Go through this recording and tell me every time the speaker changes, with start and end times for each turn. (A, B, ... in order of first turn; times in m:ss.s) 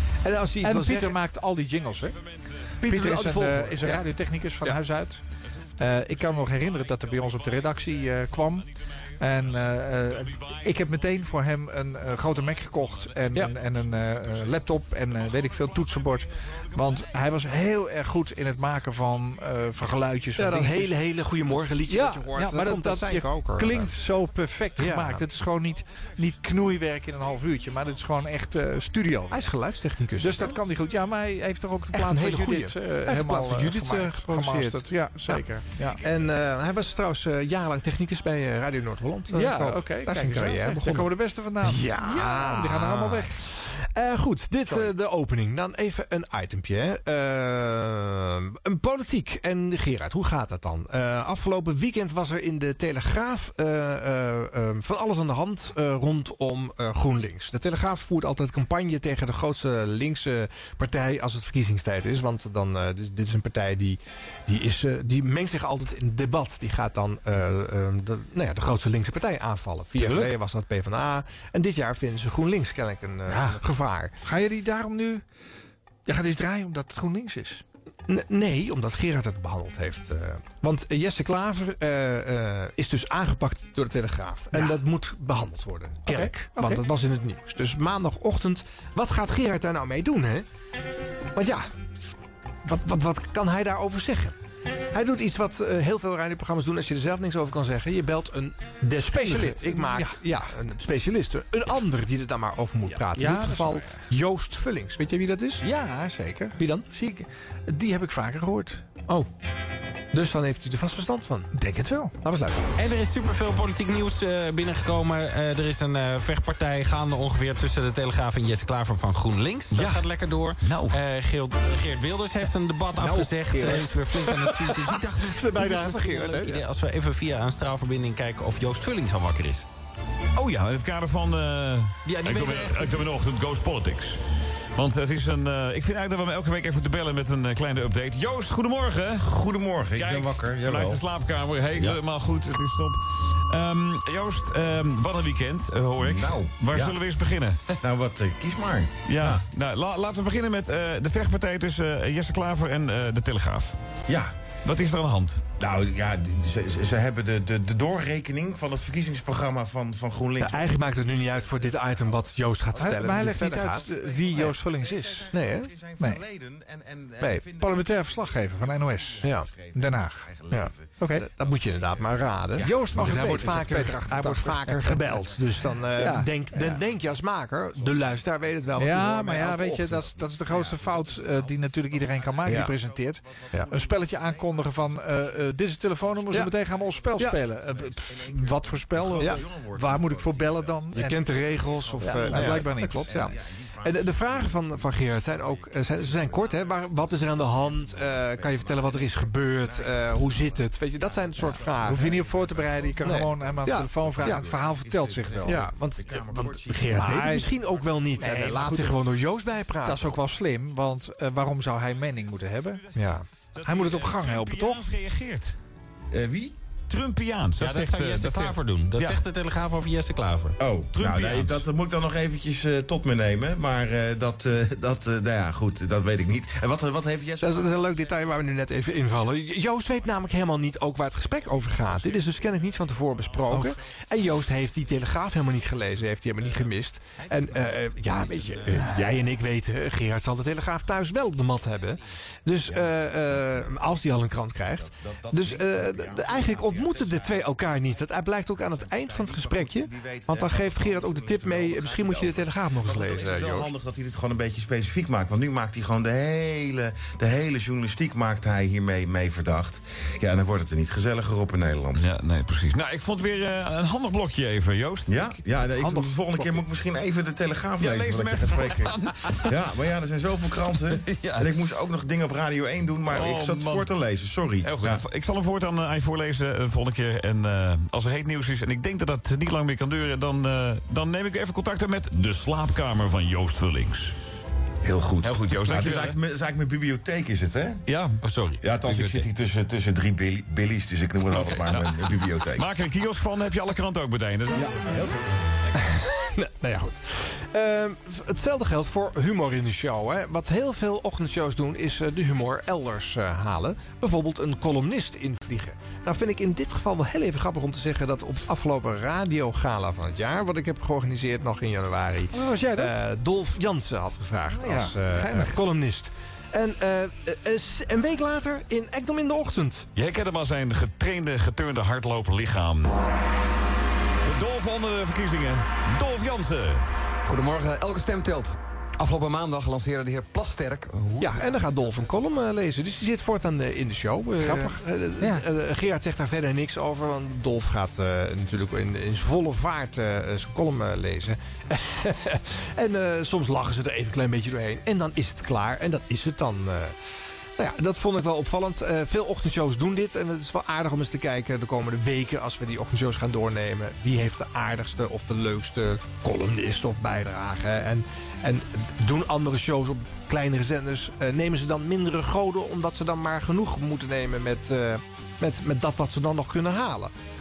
0:00.2-0:01.2 A
0:00.6-0:02.2 B
0:01.8-0:02.8 C
0:02.8-0:05.2 B
0:02.9-0:04.0 A
0:05.4-0:11.4 C
0:05.8-0:08.7 B
0:09.2-0:21.0 B
0:12.0-0:17.6 C
0:20.4-0:23.9 A
0:21.8-0:29.5 B
0:24.8-0:25.3 A
0:29.3-0:30.6 A
0:30.2-0:36.0 B
0:31.9-0:35.4 A
0:36.0-0:41.1 A
0:39.3-0:43.4 B
0:41.6-1:14.1 A
1:10.0-1:10.4 B
1:13.3-1:13.6 B
1:14.2-1:15.2 B
1:16.1-1:17.6 B
1:18.1-1:30.4 A
1:26.1-1:26.8 B
1:31.4-1:31.6 A
1:32.7-1:34.4 A
1:34.9-1:45.6 A
1:39.0-1:40.2 B
1:43.0-1:44.0 B
1:45.6-1:48.8 B
1:46.6-1:46.9 A
1:50.1-1:51.5 A
1:51.5-1:52.1 B
1:52.2-1:52.7 A
1:52.8-2:09.7 D
1:59.7-2:00.0 C
2:00.6-2:01.0 C
2:03.0-2:06.6 A
2:10.4-2:14.2 C
2:12.0-2:13.1 D
2:14.8-2:19.3 C
2:19.2-2:21.1 E
2:19.9-2:27.8 C
2:21.7-2:22.0 E
2:26.0-2:27.0 E
2:27.8-2:29.4 E
2:29.1-2:33.8 C
2:34.1-2:34.3 E
2:34.6-2:35.4 C
2:35.6-2:54.2 E
2:40.4-2:43.9 A
2:42.7-2:45.3 B
2:45.3-2:45.7 A
2:47.2-2:50.2 B
2:49.2-2:49.5 A
2:50.5-3:00.0 A
2:51.0-2:51.3 B
2:52.6-2:55.1 B
2:55.0-3:28.9 E
2:56.0-2:56.8 B
2:58.8-3:11.2 B
3:02.5-3:02.7 A
3:06.3-3:06.6 A
3:09.1-3:09.4 A
3:10.9-3:22.2 A
3:12.0-3:13.2 B
3:21.8-3:25.7 B
3:23.0-3:24.5 A
3:25.4-3:30.1 A
3:26.9-3:27.5 B
3:28.2-3:29.0 B
3:29.8-3:32.8 B
3:31.9-3:35.6 C
3:33.0-3:33.2 A
3:33.6-3:34.8 B
3:36.1-3:36.6 E
3:36.9-3:39.2 C
3:37.6-3:40.6 D
3:40.6-3:50.4 E
3:40.9-3:41.6 C
3:47.4-4:13.7 A
3:51.0-3:53.8 E
3:56.4-3:59.2 D
4:01.4-4:02.1 D
4:02.6-4:04.0 E
4:04.6-4:22.1 E
4:22.0-4:25.4 C
4:25.1-4:29.0 E
4:25.8-4:26.6 B
4:27.8-4:29.7 C
4:29.5-4:35.0 E
4:30.8-4:31.7 C
4:33.1-4:33.9 C
4:34.6-4:44.1 C
4:44.8-4:47.8 E
4:45.2-4:46.2 C
4:45.2-4:46.1 D
4:47.9-4:48.2 C
4:48.2-4:49.3 D
4:48.6-4:52.7 E
4:51.3-4:55.0 C
4:54.8-4:55.1 E
4:55.8-5:19.9 A
5:12.3-5:13.0 B
5:14.5-5:15.6 B
5:20.0-5:22.9 C
5:24.2-5:26.8 C
5:27.2-5:31.4 F
5:31.2-5:46.9 A
5:34.4-5:35.4 B
5:47.6-6:07.1 A